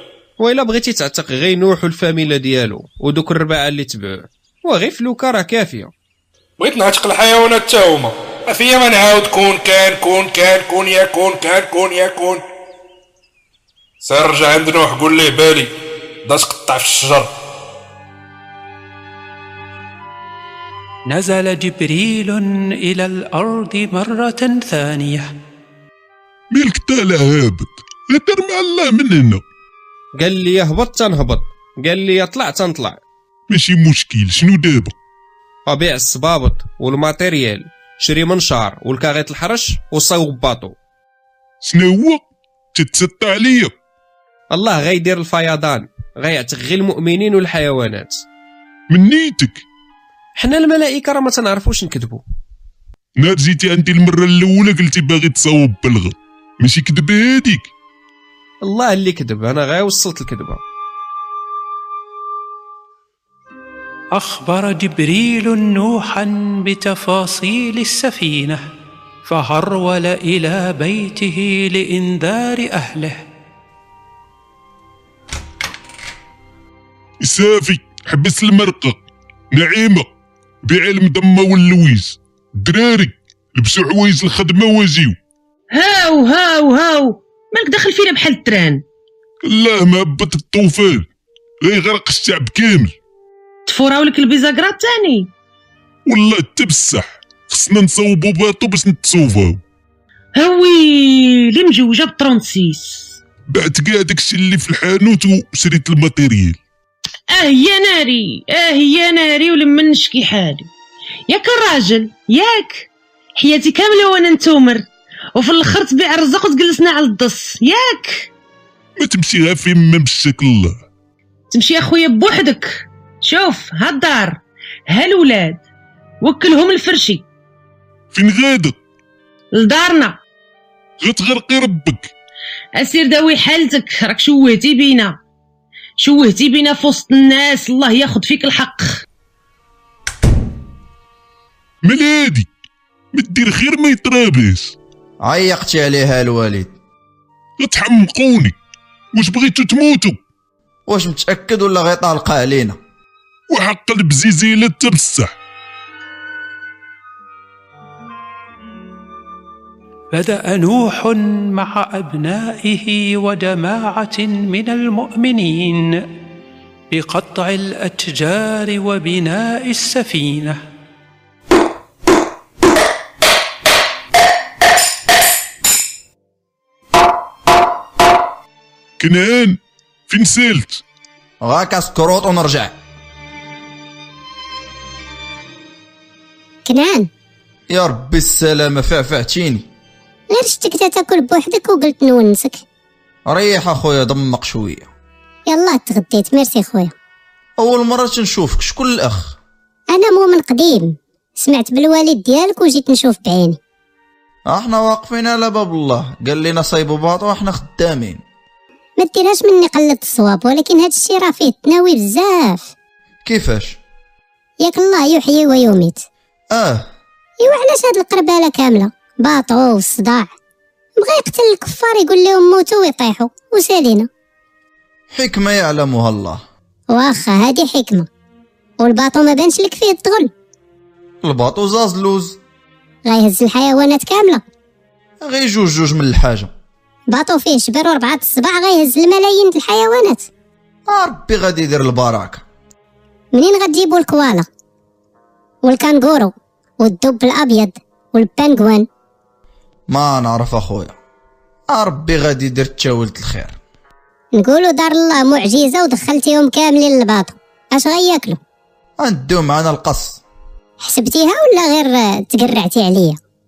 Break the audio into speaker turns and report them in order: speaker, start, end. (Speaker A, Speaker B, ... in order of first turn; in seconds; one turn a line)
Speaker A: 0.4-5.9
Speaker B: 6.6-12.4
Speaker B: 14.0-15.7
Speaker B: 16.2-17.3
Speaker C: 21.1-25.3
Speaker D: 26.5-29.4
Speaker A: 30.2-33.0
Speaker D: 33.5-34.9
Speaker A: 35.7-40.7
Speaker D: 41.6-43.7
Speaker A: 44.5-48.2
Speaker D: 48.9-49.6
Speaker A: 50.4-52.2
Speaker D: 53.2-57.7
Speaker A: 58.6-60.6
Speaker C: 64.1-68.6
Speaker C: 69.2-73.2
Speaker D: 77.2-79.0
Speaker D: 79.5-80.1
Speaker D: 80.6-85.2
Speaker E: 85.7-88.8
Speaker D: 89.5-91.1
Speaker D: 91.6-92.9
Speaker E: 93.7-95.3
Speaker D: 96.1-99.6
Speaker E: 100.3-103.2
Speaker D: 103.5-106.6
Speaker E: 107.3-110.7
Speaker E: 111.3-118.3
Speaker D: 119.0-120.8
Speaker E: 121.5-125.6
Speaker E: 126.2-127.2
Speaker D: 128.1-128.8
Speaker E: 129.5-130.2
Speaker D: 131.0-132.1
Speaker E: 132.8-135.2
Speaker E: 136.0-139.0
Speaker D: 141.8-142.5
Speaker D: 143.1-144.7
Speaker F: 145.2-146.7
Speaker D: 147.6-148.6
Speaker D: 149.1-150.2
Speaker F: 150.9-152.8
Speaker D: 153.5-155.3
Speaker C: 160.1-166.0
Speaker C: 166.9-170.6
Speaker D: 179.0-180.8
Speaker F: 181.4-182.7
Speaker G: 186.6-187.1
Speaker F: 187.7-189.7
Speaker G: 190.3-192.6
Speaker F: 193.3-194.9
Speaker G: 195.5-196.9
Speaker F: 197.6-199.4
Speaker G: 199.9-203.6
Speaker F: 204.5-208.2
Speaker G: 209.0-212.7
Speaker F: 213.2-213.8
Speaker G: 214.6-216.0
Speaker F: 216.5-216.9
Speaker G: 217.4-220.3
Speaker G: 221.0-224.1
Speaker F: 225.1-226.4
Speaker G: 226.9-228.1
Speaker G: 228.8-230.3
Speaker F: 231.2-232.4
Speaker G: 233.0-234.4
Speaker F: 235.2-236.5
Speaker G: 237.1-240.3
Speaker F: 240.9-242.4
Speaker G: 243.3-244.5
Speaker G: 245.6-248.8
Speaker F: 249.9-250.9
Speaker F: 251.7-253.6
Speaker G: 254.3-258.4
Speaker F: 259.0-260.2
Speaker G: 260.8-263.2